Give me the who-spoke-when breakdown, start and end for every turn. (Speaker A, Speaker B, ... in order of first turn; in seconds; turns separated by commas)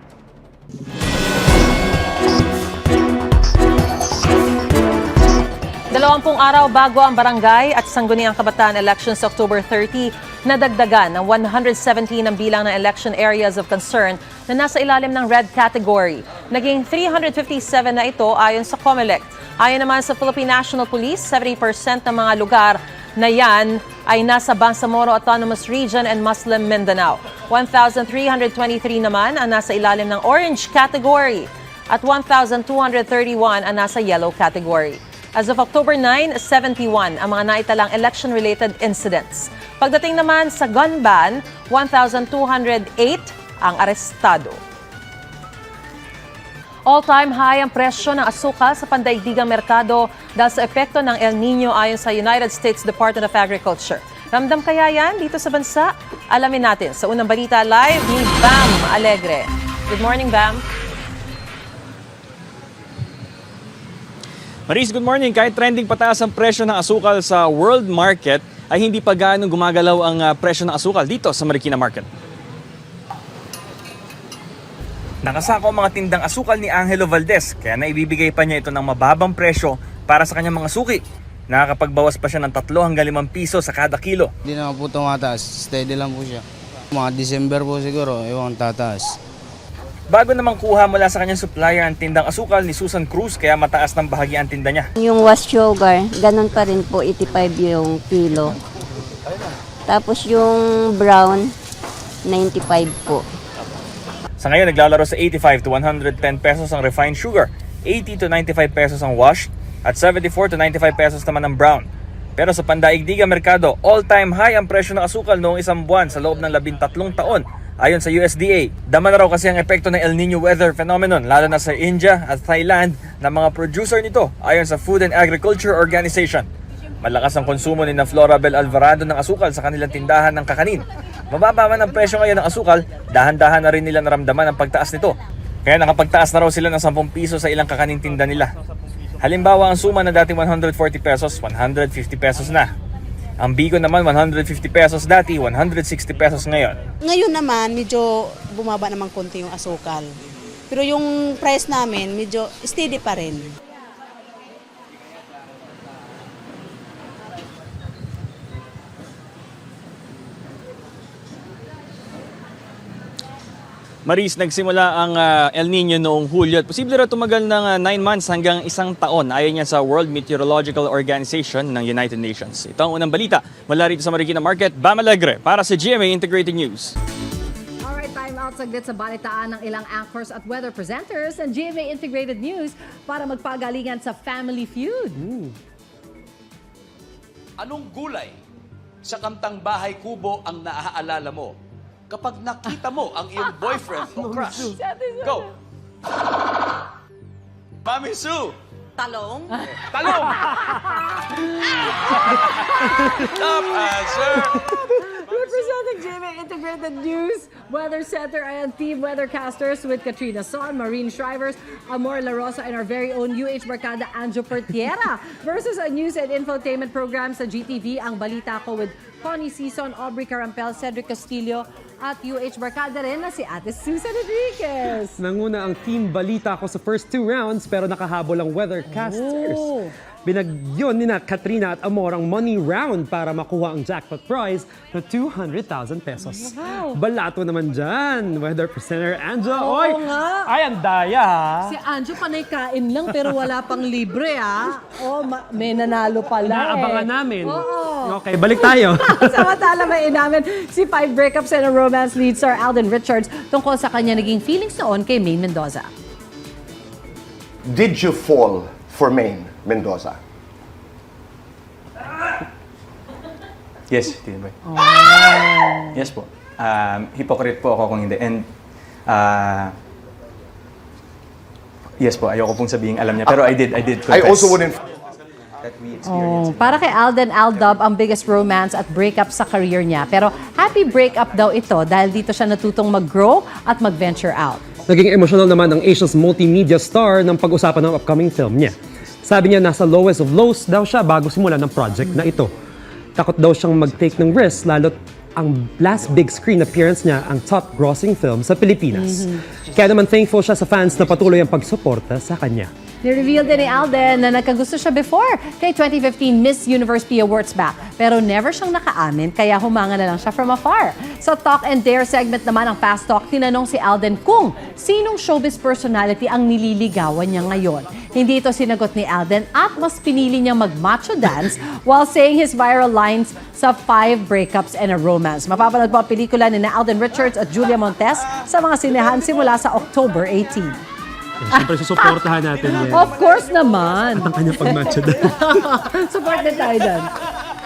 Speaker A: 5.9-44.6, Speaker A: 46.9-60.6, Speaker B: 64.7-72.1, Speaker B: 75.2-84.3, Speaker C: 84.5-89.2, Speaker B: 90.1-94.9, Speaker D: 95.0-98.6, Speaker D: 99.9-101.5, Speaker D: 102.2-103.2, Speaker B: 104.4-126.5, Speaker B: 127.0-138.5, Speaker B: 139.2-142.7, Speaker B: 143.4-146.8, Speaker E: 147.1-150.1, Speaker E: 150.7-153.4, Speaker B: 164.1-176.9, Speaker F: 177.8-185.2, Speaker G: 185.1-185.5, Speaker H: 187.6-188.4, Speaker H: 189.0-191.6, Speaker H: 192.1-195.5, Speaker G: 194.2-194.6, Speaker F: 194.3-195.5, Speaker H: 197.8-198.5, Speaker H: 199.3-200.6, Speaker F: 199.5-200.9, Speaker H: 202.1-202.3, Speaker F: 202.8-203.9, Speaker H: 203.3-204.7, Speaker F: 205.0-225.2, Speaker H: 205.2-205.7, Speaker G: 225.2-229.7, Speaker F: 228.8-229.9, Speaker G: 230.2-241.8, Speaker F: 236.2-237.0, Speaker F: 239.5-240.5, Speaker F: 241.6-255.9, Speaker G: 243.1-243.5, Speaker G: 246.4-249.5, Speaker I: 257.7-260.2, Speaker J: 263.9-265.2, Speaker F: 264.9-265.6, Speaker J: 265.9-268.5, Speaker J: 269.1-269.7, Speaker J: 272.0-274.8, Speaker I: 274.1-274.7, Speaker J: 275.6-276.9, Speaker F: 276.0-284.6, Speaker G: 284.9-292.5, Speaker G: 293.1-302.7, Speaker F: 299.0-299.2, Speaker F: 303.0-330.8, Speaker G: 331.5-333.1, Speaker F: 331.5-337.1, Speaker G: 334.2-335.3